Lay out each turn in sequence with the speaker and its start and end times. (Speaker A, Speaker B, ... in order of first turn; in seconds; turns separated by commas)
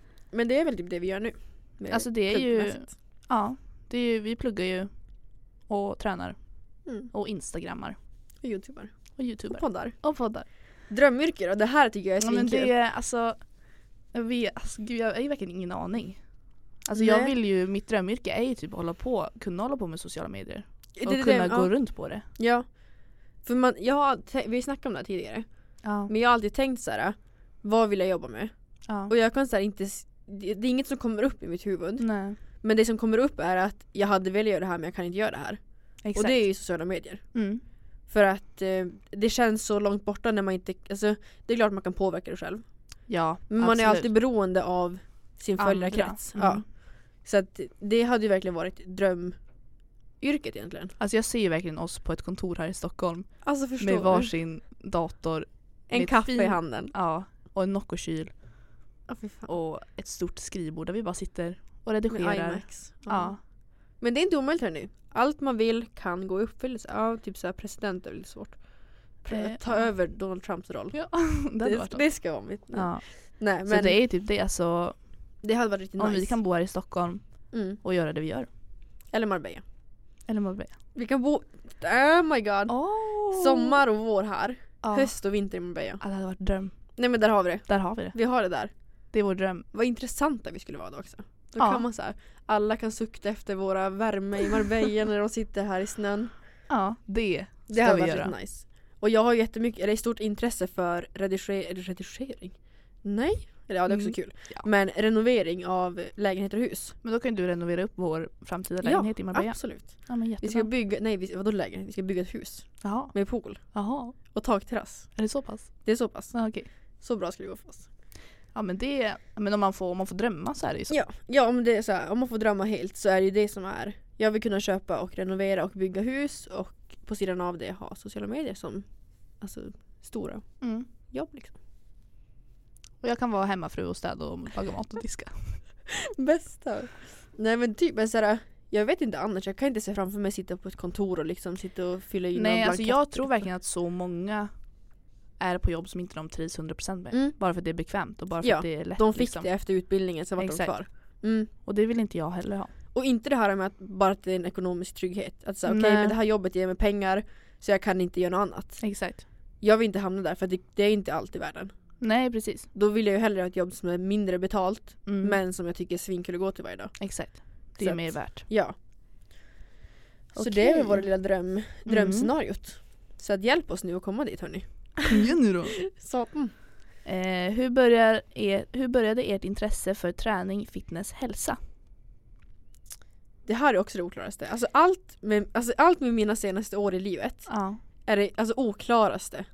Speaker A: 0.3-2.9, Speaker B: 1.9-4.9, Speaker B: 5.6-6.4, Speaker A: 6.8-7.1, Speaker B: 6.9-8.0, Speaker A: 8.4-10.0, Speaker B: 9.2-10.5, Speaker A: 10.9-12.7, Speaker B: 12.2-13.5, Speaker B: 14.1-16.3, Speaker B: 16.8-22.2, Speaker A: 16.9-17.3, Speaker A: 21.0-21.7, Speaker A: 22.3-22.8, Speaker A: 23.4-25.5, Speaker B: 25.8-26.1, Speaker A: 26.0-28.5, Speaker B: 28.9-29.1, Speaker A: 29.0-35.6, Speaker B: 32.0-32.4, Speaker B: 36.0-36.5, Speaker A: 36.1-37.3, Speaker B: 37.3-37.6, Speaker A: 38.1-49.4, Speaker B: 43.1-44.1, Speaker B: 45.6-46.6, Speaker A: 50.2-51.0, Speaker B: 51.0-58.4, Speaker A: 53.4-54.3, Speaker A: 55.9-56.9, Speaker A: 59.1-59.5, Speaker B: 59.5-63.4, Speaker A: 62.1-74.0, Speaker B: 69.3-69.9, Speaker B: 70.9-75.0, Speaker A: 75.4-76.4, Speaker B: 76.0-78.5, Speaker A: 77.5-77.8, Speaker A: 79.1-79.6, Speaker B: 80.2-80.7, Speaker A: 80.9-86.0, Speaker B: 82.7-83.8, Speaker B: 84.8-85.1, Speaker B: 86.0-87.0, Speaker A: 87.0-88.7, Speaker B: 87.6-88.2, Speaker B: 89.1-89.7, Speaker A: 89.7-96.3, Speaker B: 91.6-91.8, Speaker B: 96.7-98.3, Speaker A: 97.7-107.0, Speaker B: 103.9-104.7, Speaker B: 107.0-110.7, Speaker A: 108.8-115.2, Speaker B: 112.8-114.3, Speaker B: 115.2-116.7, Speaker A: 115.8-116.4, Speaker A: 117.0-117.9, Speaker B: 118.5-121.0, Speaker A: 120.9-131.6, Speaker B: 130.6-130.9, Speaker B: 133.0-135.6, Speaker A: 136.2-143.4, Speaker B: 142.3-144.7, Speaker B: 145.3-149.7, Speaker A: 147.1-147.4, Speaker A: 148.4-151.5, Speaker B: 150.4-150.8, Speaker B: 151.5-152.7, Speaker A: 152.9-158.8, Speaker B: 155.7-156.2, Speaker B: 158.8-159.2, Speaker A: 159.6-162.0, Speaker B: 162.0-162.7, Speaker A: 162.7-167.0, Speaker B: 165.1-165.4, Speaker B: 167.0-168.5, Speaker A: 167.5-168.7, Speaker B: 170.3-171.1, Speaker A: 170.3-175.3, Speaker B: 171.8-172.3, Speaker B: 175.1-175.8, Speaker A: 175.9-176.5, Speaker B: 177.0-181.6, Speaker A: 183.4-187.5, Speaker B: 187.5-187.8, Speaker A: 188.0-189.4